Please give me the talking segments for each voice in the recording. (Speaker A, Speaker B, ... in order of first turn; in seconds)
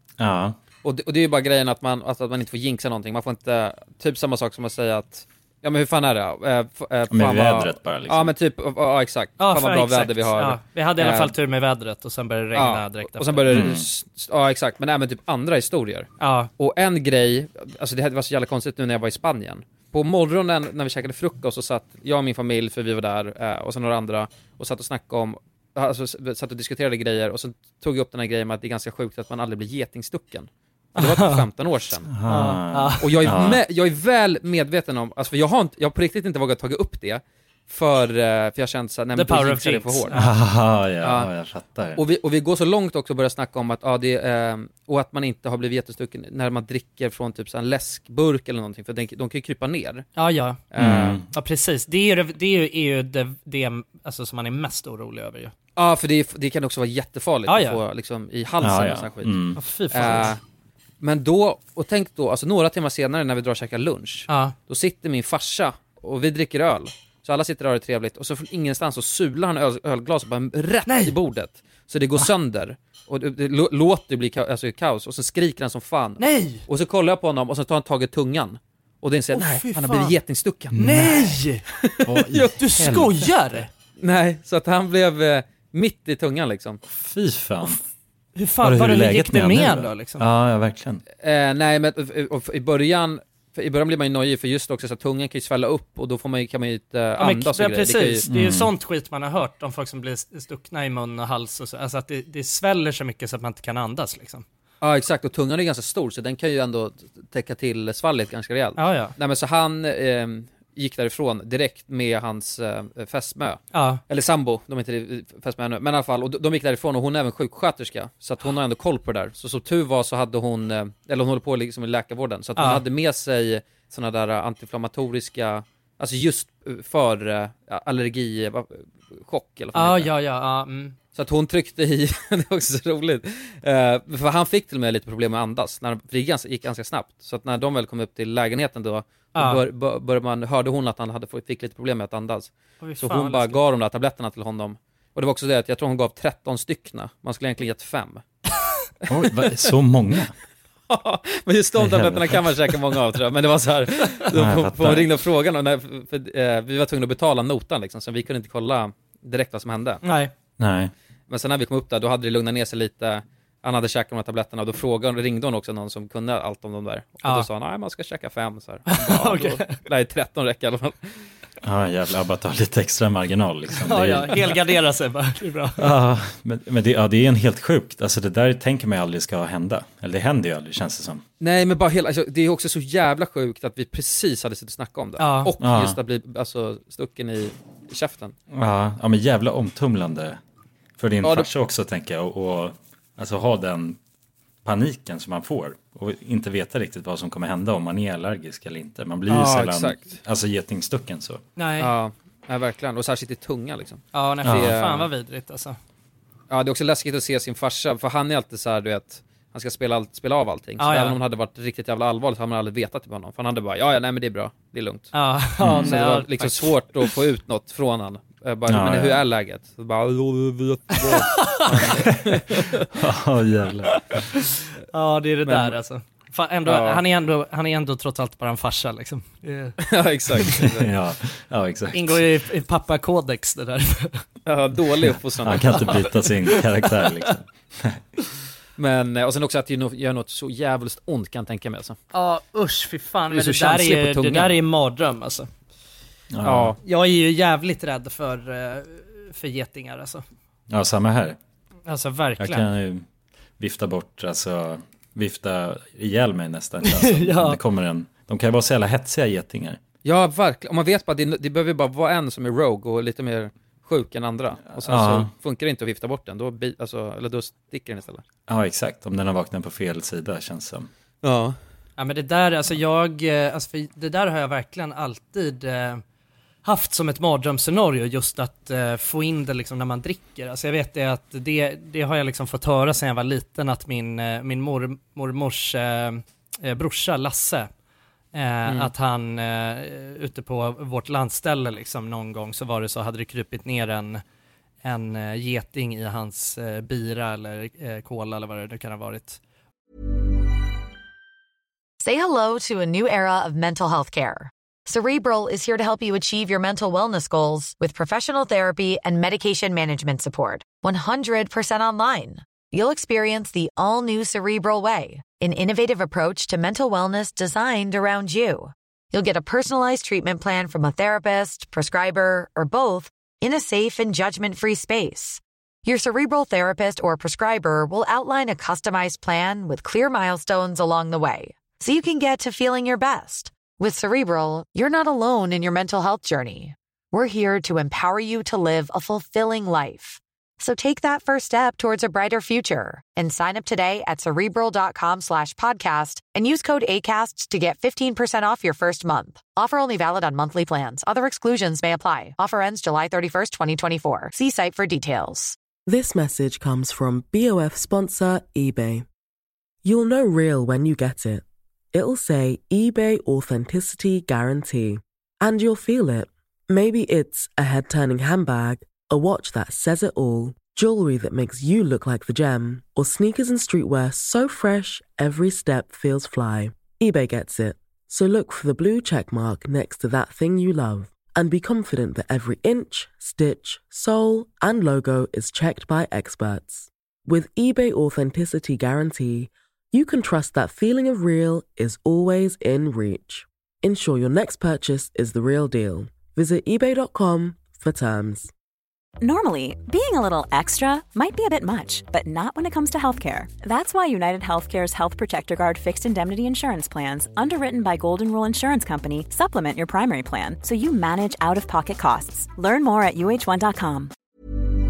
Speaker A: 0.2-0.6, 7.1-8.3, 13.5-13.9, 32.1-33.6, 40.1-42.0, 50.8-51.3, 58.6-60.1, 80.7-81.3, 82.1-82.9, 86.9-87.8, 88.6-91.0, 98.3-98.7, 149.1-150.3, 151.8-152.4, 154.3-155.1, 160.6-160.9, 171.6-174.6, 175.8-181.2, 185.6-186.0, 188.5-190.4, 191.0-194.0, 194.7-201.4, 204.4-204.8, 215.6-215.9, 218.7-219.2, 221.8-224.2, 230.5-232.2, 235.4-238.0, 246.3-246.8, 250.7-251.4, 252.4-253.0, 253.6-259.8, 264.7-265.3, 268.5-270.9
Speaker B: 0.8-11.3, 12.6-32.1, 33.0-40.2, 41.0-41.3, 42.0-50.1, 50.7-51.2, 55.8-59.4, 59.9-60.4, 61.0-81.2, 81.7-83.1, 84.0-86.8, 91.2-98.2, 104.8-130.1, 131.2-148.2, 149.4-149.7, 150.9-160.0, 161.3-171.1, 181.4-188.3, 191.2-191.5, 199.3-200.1, 201.8-205.1, 206.5-215.1, 215.8-222.9, 225.4-225.8, 226.7-227.0, 229.8-230.9, 234.5-236.1, 238.8-242.0, 243.3-244.6, 246.4-246.8, 260.1-268.2, 271.2-271.6
Speaker C: 9.4-13.7, 16.2-16.5, 31.0-31.4, 32.3-33.2, 39.1-40.3, 50.2-50.6, 51.3-55.5, 57.5-57.8, 59.6-60.3, 64.3-64.5, 70.9-71.2, 76.2-76.7, 79.3-80.2, 80.8-81.7, 82.5-83.7, 88.4-90.2, 97.2-104.5, 108.8-109.1, 113.7-114.0, 122.6-122.8, 129.7-130.9, 139.3-139.6, 142.8-143.6, 160.0-160.3, 168.9-169.8, 173.7-175.8, 185.2-185.5, 201.6-201.9, 204.1-205.8, 210.8-211.2, 215.1-216.8, 221.0-222.0, 223.9-229.8, 231.9-234.2, 242.1-245.5, 246.8-250.2, 251.9-252.7, 256.8-257.6, 272.0-276.0, 276.6-287.7, 288.3-294.2, 294.8-299.4
Speaker D: 302.0-355.6
Speaker E: 355.9-359.1, 359.8-398.5
Speaker F: 399.2-414.1